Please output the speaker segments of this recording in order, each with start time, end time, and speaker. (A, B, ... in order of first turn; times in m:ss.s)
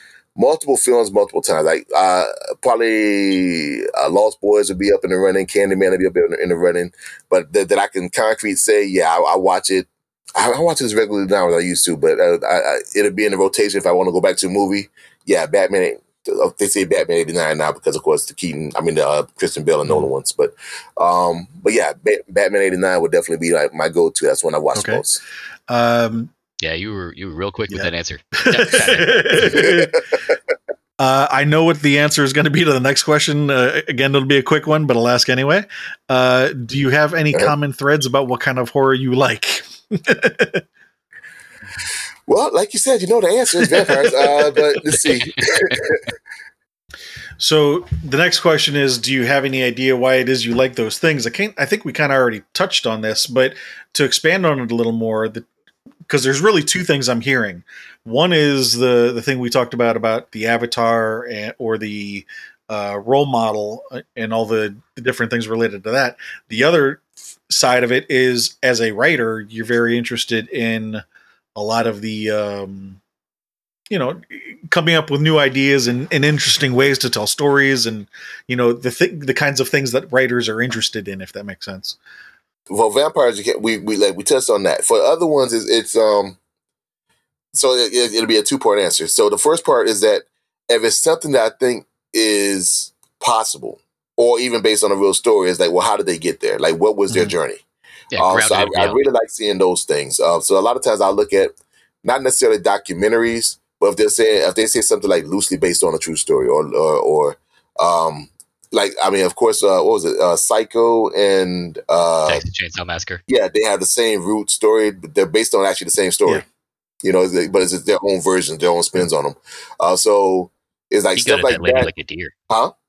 0:00.4-0:25.2 A
0:24.8-0:25.0 B
0:25.7-0:26.3 B
0:26.6-0:29.6 C
0:27.7-0:30.0 B
0:29.4-0:30.4 A
0:31.0-0:40.6 B
0:42.3-0:46.0 A
0:43.6-0:44.3 B
0:44.9-0:45.7 C
0:47.4-0:55.5 B
0:56.1-1:11.0 B
1:11.6-1:13.0 B
1:13.9-1:22.0 B
1:22.7-1:26.4 A
1:27.5-1:37.6 A
1:38.1-1:39.0 C
1:38.2-1:52.4 A
1:52.3-1:53.2 C
1:53.3-1:56.4 A
1:57.0-2:01.9 A
2:01.2-2:02.3 C